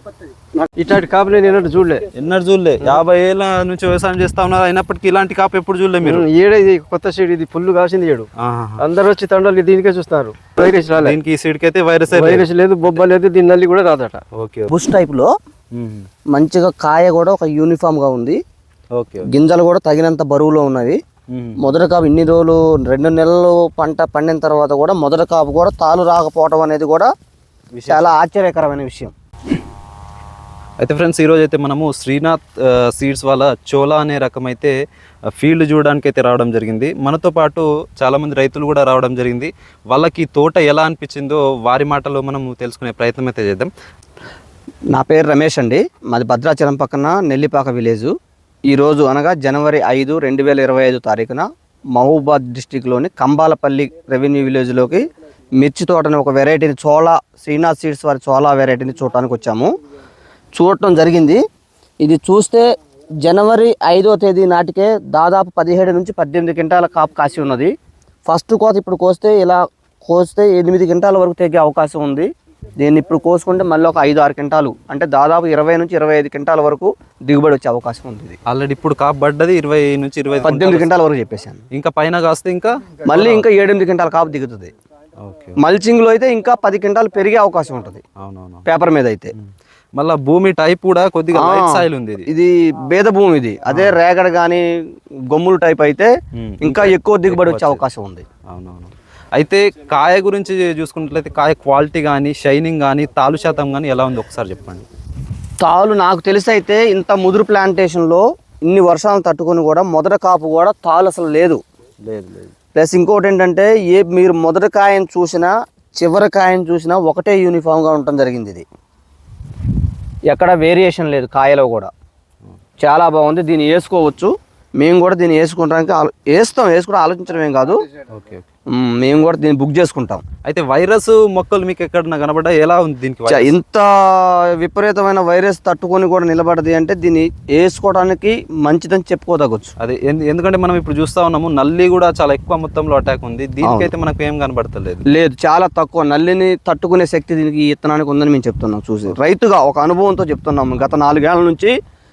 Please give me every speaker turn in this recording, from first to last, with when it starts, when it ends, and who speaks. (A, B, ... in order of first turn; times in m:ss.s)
0:00.8-0:02.0 A
0:02.2-0:06.2 B
0:06.0-0:08.3 A
0:08.4-0:08.8 B
0:08.8-0:11.2 A
0:11.0-0:12.5 B
0:12.1-0:14.2 A
0:14.4-0:14.7 B
0:14.7-0:15.3 C
0:15.7-0:16.1 B
0:16.3-0:18.4 C
0:19.0-0:19.3 B
0:19.3-0:21.0 C
0:21.3-0:21.6 B
0:21.6-0:27.1 C
0:27.8-0:28.2 B
0:27.9-0:29.1 C
0:30.8-0:34.8 B
0:35.4-0:43.7 B
0:44.9-0:48.1 C
0:48.7-0:55.1 C
0:55.6-0:59.7 C
1:00.5-1:01.4 C
1:02.0-1:02.7 C
1:03.2-1:07.7 C
1:08.3-1:18.4 C
1:18.5-1:20.9 B
1:20.4-1:21.6 C
1:21.7-1:23.4 B
1:23.1-1:24.7 C
1:25.2-1:25.6 B
1:25.6-1:28.0 C
1:28.2-1:28.6 B
1:28.6-1:29.3 C
1:29.4-1:32.3 B
1:31.3-1:34.7 C
1:33.7-1:34.0 B
1:35.3-1:38.2 C
1:36.4-1:37.8 B
1:38.5-1:44.8 B
1:45.6-1:51.6 C
1:52.0-1:52.5 B
1:52.8-1:58.6 C
2:00.3-2:01.9 C
2:02.8-2:07.8 C
2:08.1-2:08.5 B
2:08.7-2:10.2 C
2:10.4-2:13.6 B
2:13.3-2:19.7 C
2:19.8-2:25.0 B
2:23.6-2:23.9 C
2:25.1-2:31.7 C